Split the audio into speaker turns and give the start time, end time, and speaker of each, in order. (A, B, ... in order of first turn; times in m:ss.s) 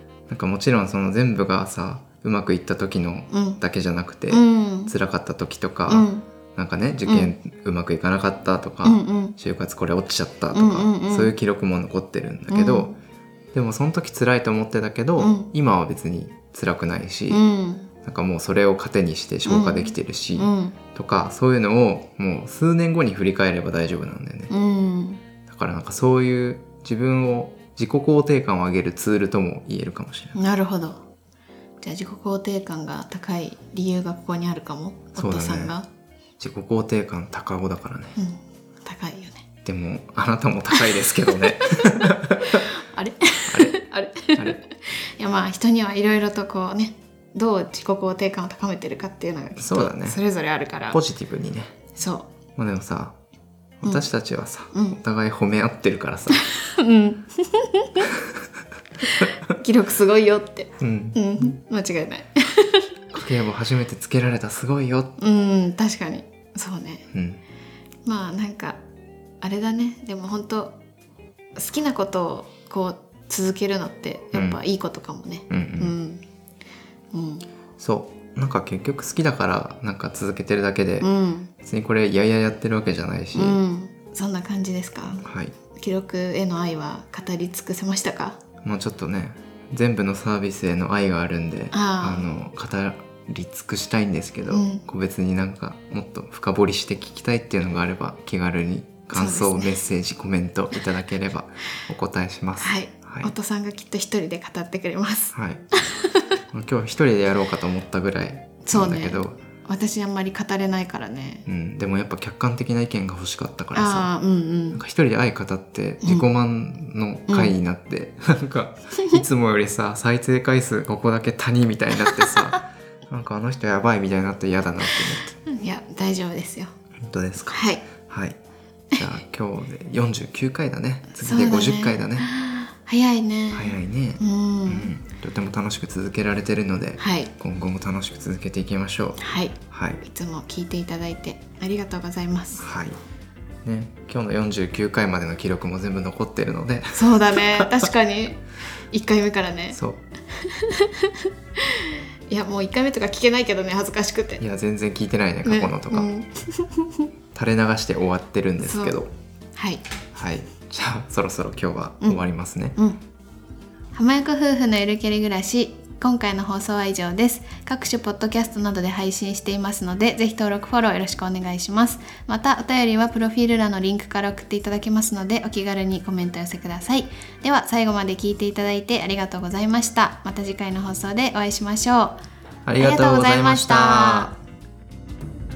0:00.3-0:12.9 A
0:03.3-0:03.6 B
0:04.3-0:04.9 B
0:05.9-0:06.2 B
0:07.0-0:07.3 B
0:08.8-0:09.4 B
0:10.5-0:11.3 B
0:12.5-0:12.9 B
0:13.5-0:17.4 A
0:15.2-0:15.5 B
0:17.3-0:17.9 B
0:18.0-0:24.5 A
0:19.4-0:20.8 B
0:24.5-0:25.2 B
0:25.5-0:30.4 A
0:30.3-0:31.0 B
0:31.8-0:35.8 B
0:35.2-0:35.7 A
0:36.4-0:38.2 A
0:38.2-0:39.4 B
0:39.6-0:42.6 A
0:41.9-0:51.0 B
0:43.5-0:43.8 A
0:49.6-0:50.2 A
0:50.9-0:51.7 A
0:52.0-0:52.3 B
0:52.6-0:53.1 A
0:53.8-0:56.4 A
0:54.7-0:55.0 B
0:56.3-0:58.1 B
0:59.0-1:02.9 B
1:00.8-1:01.4 A
1:03.1-1:05.1 A
1:05.2-1:07.0 B
1:07.1-1:07.4 A
1:08.0-1:08.8 B
1:09.4-1:10.7 B
1:11.6-1:16.2 B
1:14.3-1:14.6 A
1:15.5-1:15.9 A
1:17.1-1:17.4 B
1:17.8-1:23.6 A
1:21.0-1:21.5 B
1:23.3-1:25.2 B
1:25.2-1:25.5 A
1:25.7-1:28.4 B
1:28.6-1:43.3 A
1:31.7-1:32.3 B
1:34.5-1:34.8 B
1:39.1-1:39.8 B
1:42.6-1:46.3 B
1:45.3-1:45.6 A
1:46.5-1:49.4 A
1:48.6-1:51.4 B
1:51.5-1:54.1 A
1:53.7-1:54.8 B
1:54.7-2:05.3 A
1:57.3-1:57.5 B
2:05.4-2:06.7 B
2:07.0-2:08.4 A
2:07.5-2:07.8 B
2:08.9-2:12.3 A
2:11.2-2:14.9 B
2:13.5-2:20.0 A
2:17.0-2:17.3 B
2:19.2-2:22.6 B
2:22.6-2:23.0 A
2:23.6-2:27.9 A
2:26.9-2:28.4 B
2:28.9-2:29.8 B
2:29.7-2:30.0 A
2:30.4-2:34.4 B
2:34.4-2:36.1 A
2:35.4-2:37.1 B
2:37.3-2:39.1 A
2:38.6-2:39.0 B
2:39.6-2:39.8 B
2:40.1-2:42.8 A
2:43.9-3:02.2 B
3:02.6-3:04.3 A
3:02.8-3:04.3 B